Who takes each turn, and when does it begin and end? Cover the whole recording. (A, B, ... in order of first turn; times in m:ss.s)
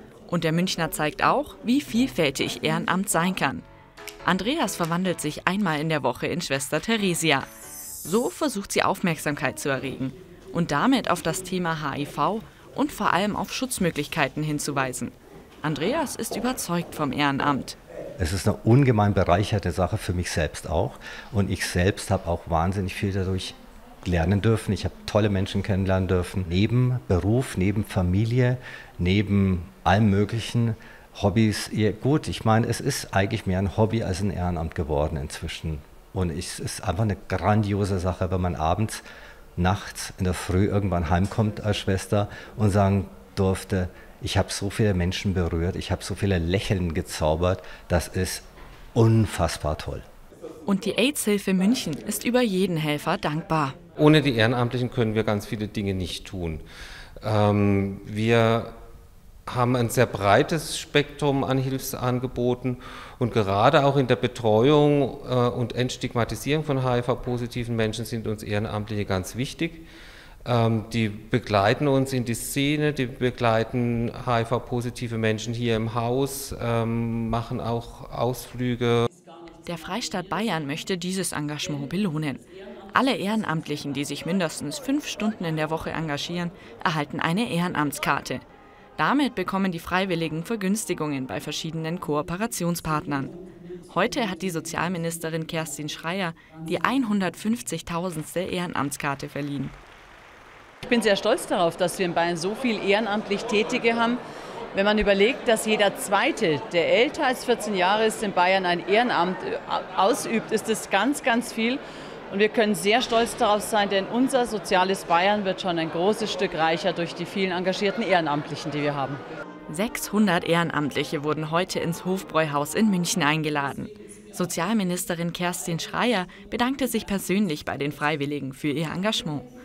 0:00.3-0:03.6 A
0:04.2-0:07.5 A
0:08.0-0:17.8 A
0:18.2-0:39.0 B
0:39.6-0:50.0 B
0:50.6-0:53.8 A
0:54.0-0:56.6 C
0:57.2-0:58.8 C
0:59.5-1:09.8 C
1:10.4-1:19.1 C
1:19.6-1:28.4 A
1:29.0-1:33.3 A
1:33.9-1:39.8 A
1:40.8-1:44.2 D
1:44.7-1:59.2 D
1:59.7-2:09.5 A